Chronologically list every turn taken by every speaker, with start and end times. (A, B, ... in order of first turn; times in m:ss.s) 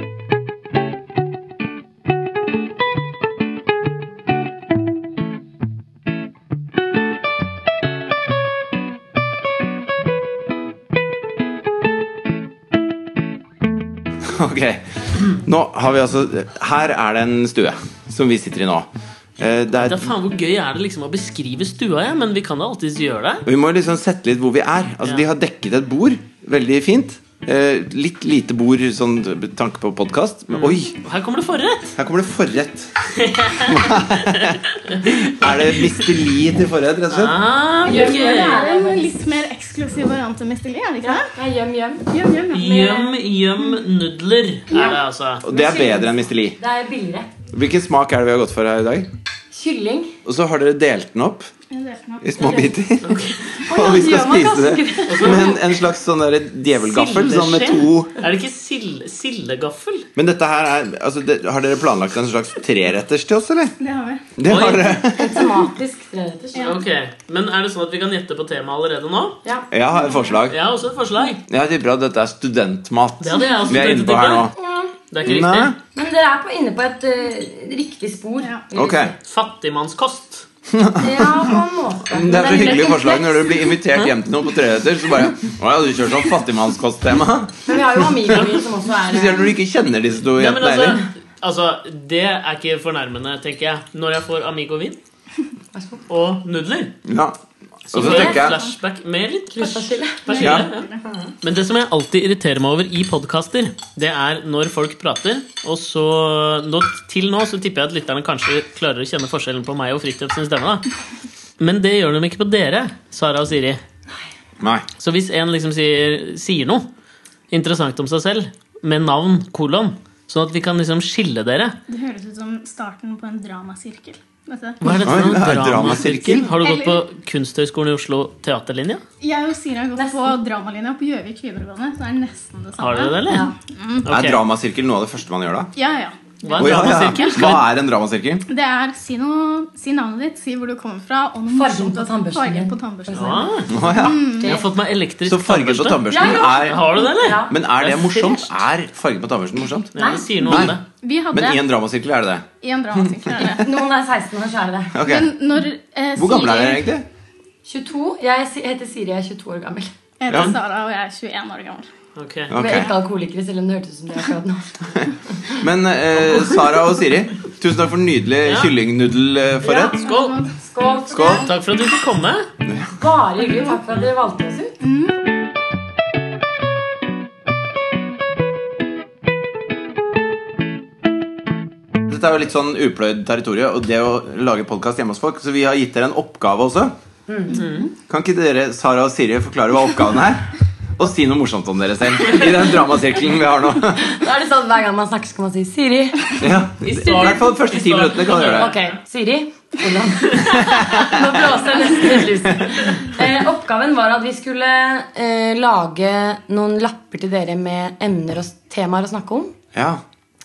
0:14.2-0:20.1 A
0:19.8-0:23.4 B
0:23.4-0:30.9 A
0:30.5-0:31.9 B
0:31.9-0:32.9 A
0:33.1-0:36.0 B
0:33.5-0:37.3 A
0:37.1-0:38.6 B
0:37.8-0:39.2 C
0:37.8-0:41.3 D
0:41.0-0:43.2 C
0:42.1-0:42.6 D
0:42.5-0:45.4 B
0:44.7-0:47.3 C
0:45.4-0:46.6 A
0:47.5-0:49.1 A
0:49.5-0:50.2 C
0:50.2-0:51.5 A
0:51.7-0:52.7 D
0:52.2-0:58.1 A
0:52.4-0:52.7 C
0:53.0-0:53.4 B
0:53.6-0:55.8 C
0:55.0-0:55.5 B
0:56.8-1:00.1 B
1:00.2-1:03.7 A
1:03.8-1:04.3 D
1:04.4-1:05.5 A
1:04.4-1:05.0 B
1:05.0-1:06.8 C
1:06.5-1:09.4 B
1:09.7-1:10.6 A
1:10.5-1:11.4 B
1:11.5-1:14.5 A
1:13.2-1:14.5 B
1:14.6-1:14.9 C
1:15.1-1:15.8 B
1:15.2-1:15.8 A
1:15.9-1:19.1 C
1:18.7-1:19.1 A
1:19.2-1:20.4 B
1:20.7-1:21.6 A
1:21.0-1:23.8 C
1:22.1-1:31.0 A
1:27.7-1:29.5 C
1:30.3-1:35.0 B
1:35.7-1:36.0 C
1:36.1-1:36.9 B
1:37.0-1:37.4 A
1:37.9-1:38.6 A
1:37.9-1:40.9 B
1:38.0-1:38.4 C
1:39.5-1:41.3 C
1:40.3-1:41.0 D
1:40.4-1:40.6 A
1:41.4-1:50.8 B
1:51.6-1:53.8 B
1:54.6-1:54.8 A
1:55.0-1:56.9 B
1:57.5-2:01.7 B
2:01.9-2:04.8 D
2:04.8-2:09.0 B
2:05.0-2:06.5 A
2:06.3-2:07.0 D
2:09.2-2:14.1 D
2:10.0-2:10.3 C
2:12.8-2:13.5 B
2:13.3-2:13.5 C
2:14.0-2:14.4 B
2:14.0-2:15.7 A
2:15.7-2:17.6 D
2:16.4-2:17.7 B
2:16.6-2:18.4 A
2:18.5-2:24.6 D
2:21.5-2:24.7 C
2:23.1-2:23.7 B
2:23.7-2:24.3 A
2:24.4-2:28.3 B
2:25.2-2:29.9 A
2:26.0-2:28.4 C
2:29.9-2:30.8 B
2:30.0-2:30.6 C
2:30.4-2:30.8 A
2:31.0-2:31.6 D
2:31.3-2:33.7 A
2:32.6-2:33.7 D
2:33.4-2:35.0 C
2:34.9-2:35.4 A
2:35.0-2:36.9 D
2:36.2-2:37.0 A
2:37.6-2:39.9 C
2:40.2-2:41.9 D
2:40.3-2:40.6 A
2:42.2-2:42.5 B
2:42.5-2:42.9 A
2:42.5-2:45.6 C
2:45.6-2:49.9 A
2:48.4-2:48.7 B
2:49.6-2:50.0 C
2:50.0-2:50.6 D
2:50.0-2:50.4 B
2:50.6-2:51.5 C
2:51.1-2:51.5 A
2:51.1-2:52.4 B
2:52.6-2:52.9 A
2:53.0-2:54.7 C
2:54.8-2:55.1 D
3:02.1-3:06.9 A
3:07.3-3:07.6 C
3:07.5-3:07.9 B
3:08.1-3:14.0 A
3:14.0-3:16.5 C
3:16.4-3:18.7 A
3:16.8-3:18.9 B
3:18.4-3:29.5 C
3:20.4-3:20.8 B
3:20.4-3:21.4 A
3:29.7-3:30.0 A